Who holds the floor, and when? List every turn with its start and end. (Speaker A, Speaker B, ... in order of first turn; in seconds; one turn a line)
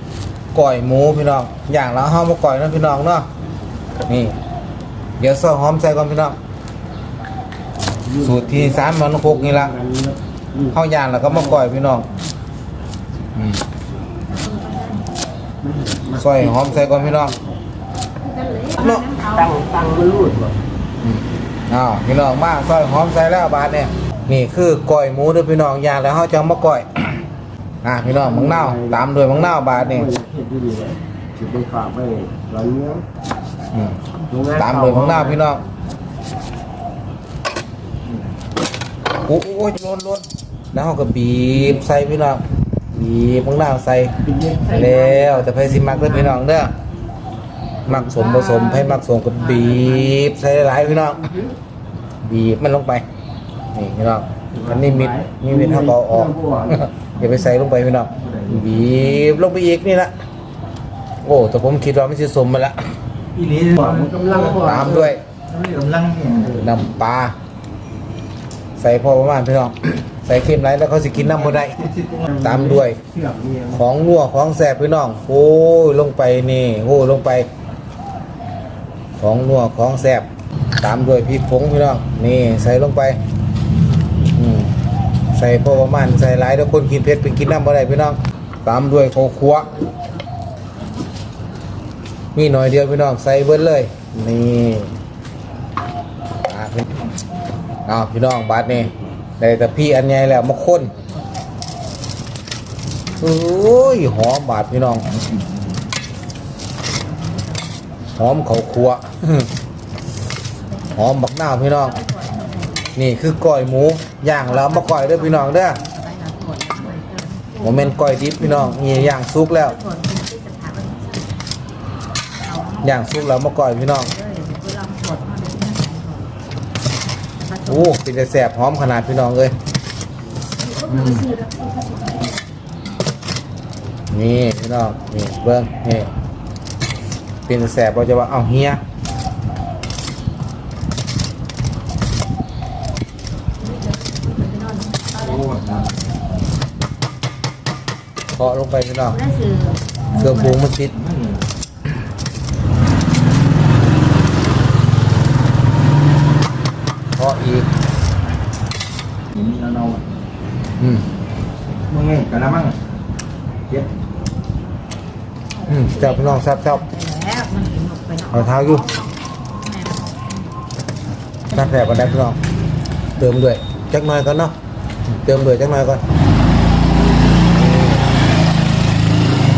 Speaker A: 0.5-3.3
Speaker A: 4.1-4.3
Speaker A: 5.2-6.3
Speaker B: 8.0-11.7
Speaker A: 8.2-9.7
Speaker A: 10.7-12.1
Speaker A: 13.3-13.6
Speaker C: 14.3-15.1
Speaker B: 15.6-17.6
Speaker A: 16.2-17.3
Speaker C: 18.2-19.6
Speaker A: 18.8-19.1
Speaker B: 19.3-20.5
Speaker A: 21.0-26.9
Speaker A: 27.8-30.1
Speaker B: 28.1-33.0
Speaker A: 33.7-34.0
Speaker B: 34.3-35.4
Speaker A: 34.5-35.6
Speaker A: 39.2-42.4
Speaker A: 42.9-46.7
Speaker B: 44.2-46.4
Speaker A: 47.9-51.3
Speaker B: 47.9-48.2
Speaker C: 48.5-48.9
Speaker B: 50.7-51.5
Speaker A: 52.2-53.0
Speaker A: 53.7-60.1
Speaker B: 54.5-56.8
Speaker D: 58.1-58.9
Speaker A: 61.2-62.8
Speaker D: 63.3-64.8
Speaker B: 63.7-65.1
Speaker A: 64.5-65.2
Speaker D: 65.3-66.7
Speaker A: 66.5-67.3
Speaker A: 68.8-71.8
Speaker D: 71.3-72.3
Speaker B: 72.1-73.8
Speaker A: 72.4-73.0
Speaker A: 73.7-77.5
Speaker A: 79.2-80.3
Speaker A: 80.8-83.2
Speaker A: 84.3-84.7
Speaker A: 85.3-89.8
Speaker C: 89.7-90.1
Speaker A: 92.3-94.9
Speaker A: 96.4-96.9
Speaker A: 97.8-100.9
Speaker C: 100.6-101.3
Speaker C: 103.0-104.3
Speaker A: 103.2-105.1
Speaker D: 105.1-105.4
Speaker C: 106.9-107.8
Speaker A: 108.2-109.5
Speaker A: 110.9-112.0
Speaker C: 111.8-112.9
Speaker A: 112.9-115.8
Speaker C: 114.4-121.4
Speaker A: 117.6-119.8
Speaker C: 122.4-126.3
Speaker A: 122.8-124.1
Speaker C: 127.4-128.0
Speaker A: 127.7-129.5
Speaker C: 130.6-132.7
Speaker A: 130.9-131.3
Speaker A: 134.1-136.1
Speaker A: 137.5-138.8
Speaker C: 143.6-145.3
Speaker D: 145.1-146.0
Speaker A: 148.3-149.2
Speaker C: 149.1-150.6
Speaker A: 150.1-150.9
Speaker D: 150.9-151.4
Speaker A: 157.2-157.7
Speaker D: 159.3-160.0
Speaker A: 160.8-161.1
Speaker D: 161.9-162.8
Speaker C: 165.6-170.5
Speaker A: 165.7-166.8
Speaker A: 168.3-168.9
Speaker A: 171.5-172.4
Speaker C: 171.6-172.3
Speaker A: 173.2-174.5
Speaker A: 175.1-176.0
Speaker A: 177.4-178.1